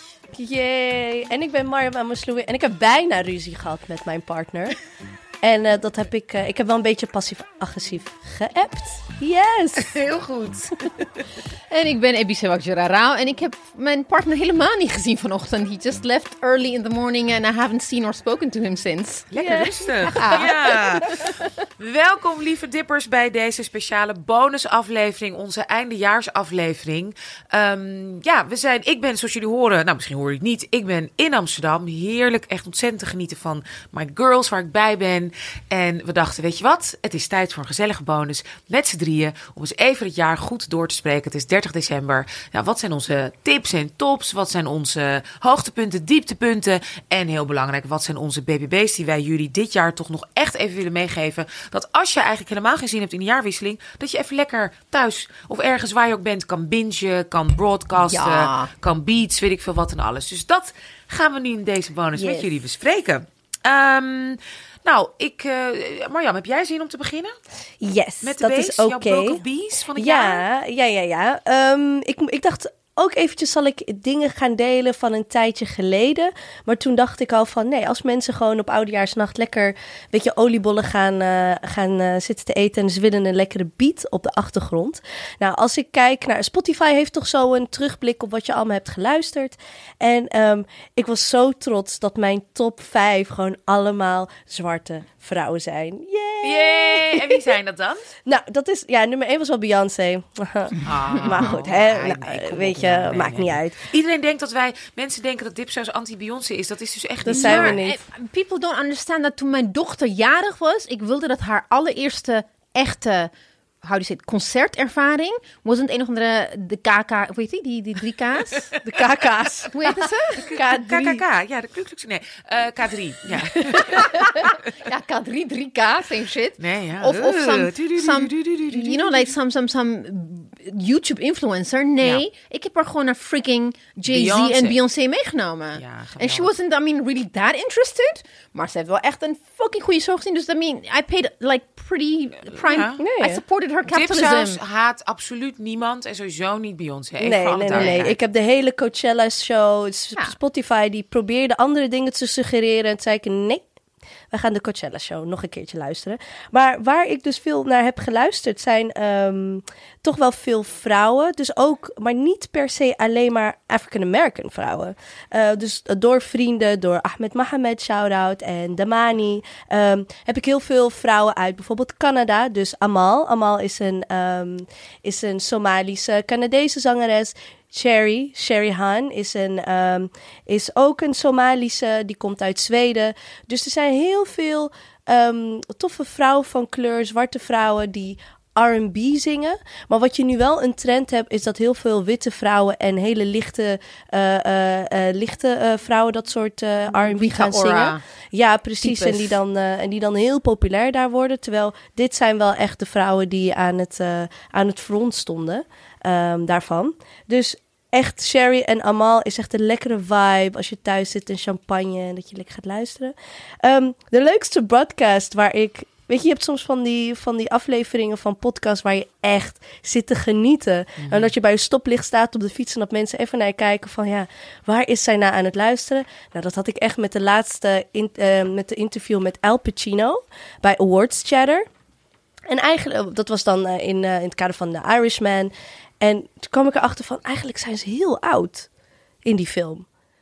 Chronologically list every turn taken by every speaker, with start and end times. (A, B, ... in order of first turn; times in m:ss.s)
0:00.3-0:04.7 A
0:05.4-0:09.9 A
0:09.8-0:10.9 B
0:11.7-0:19.4 C
0:19.3-1:07.4 B
0:19.4-0:20.4 A
0:20.1-0:21.3 C
0:58.1-0:58.7 C
1:02.2-1:02.5 A
1:07.8-1:09.4 A
1:08.2-1:10.4 B
1:09.9-1:37.5 A
1:36.4-1:38.1 B
1:38.2-1:43.8 A
1:40.8-1:47.8 B
1:47.3-1:48.0 A
1:47.3-1:53.3 C
1:53.8-1:58.7 C
1:58.8-2:01.2 A
1:59.7-2:00.4 C
2:00.3-2:04.7 B
2:03.6-2:04.0 A
2:04.1-2:24.6 C
2:06.6-2:09.3 B
2:14.0-2:14.8 B
2:15.8-2:16.5 B
2:22.6-2:23.0 B
2:23.0-2:23.4 A
2:23.9-2:28.1 B
2:27.2-2:33.7 A
2:27.7-2:28.0 C
2:34.3-3:51.6 A
3:16.9-3:18.0 C
3:18.8-3:19.4 C
3:41.0-3:41.3 B
3:52.5-3:58.7 A
3:59.2-3:59.8 A